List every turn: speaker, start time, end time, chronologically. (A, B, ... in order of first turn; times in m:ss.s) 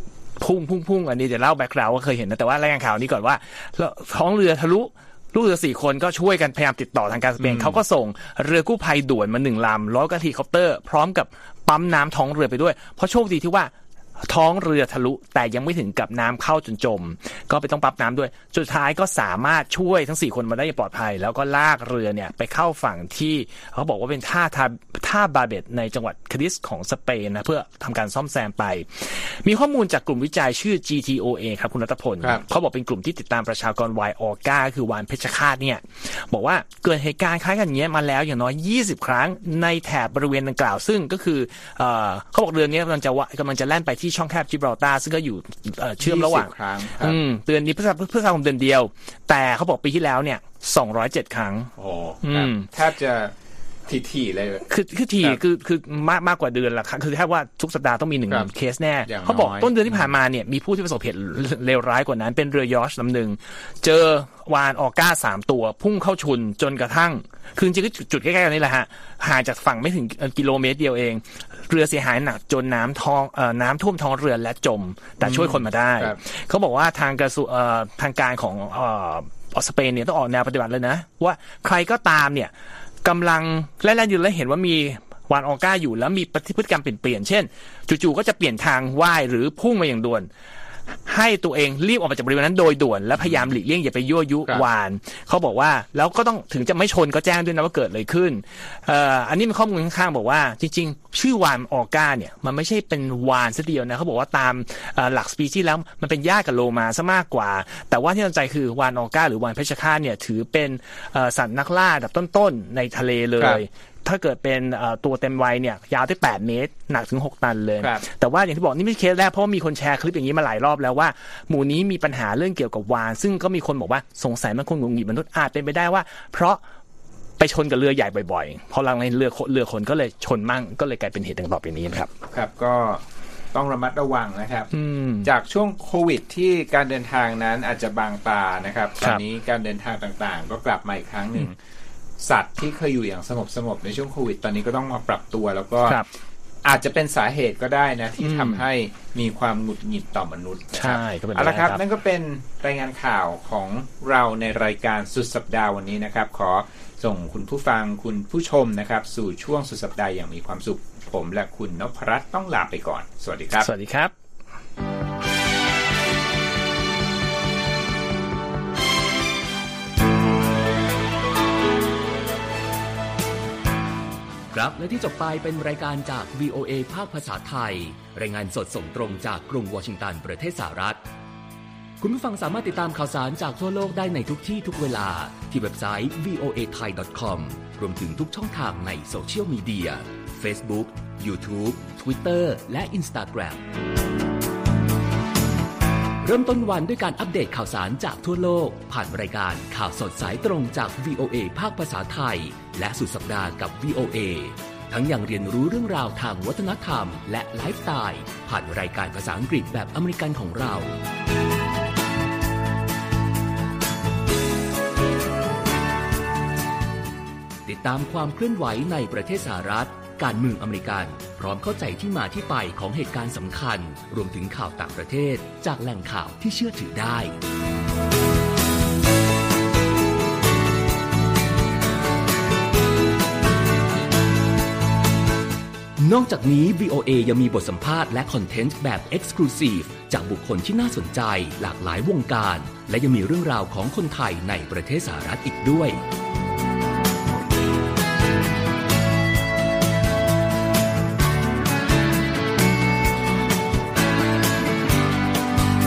0:00.4-0:52.7 A
0:07.4-0:07.8 B
0:46.0-0:47.2 B
0:51.8-0:53.3 B
0:53.8-0:54.6 B
0:54.6-1:22.5 A
0:59.0-1:00.1 B
1:15.2-1:16.2 B
1:23.0-1:30.3 A
1:31.0-2:06.6 A
2:07.4-2:12.1 A
2:12.3-2:14.7 B
2:14.7-2:15.3 A
2:15.2-2:21.6 B
2:22.2-2:26.0 B
2:26.6-2:43.7 B
2:28.2-2:28.6 A
2:30.8-2:31.8 A
2:43.6-2:44.1 A
2:54.5-3:01.0 C
3:02.0-3:13.7 C
3:16.2-3:31.0 C
3:37.6-3:47.3 C
3:56.0-4:06.0 C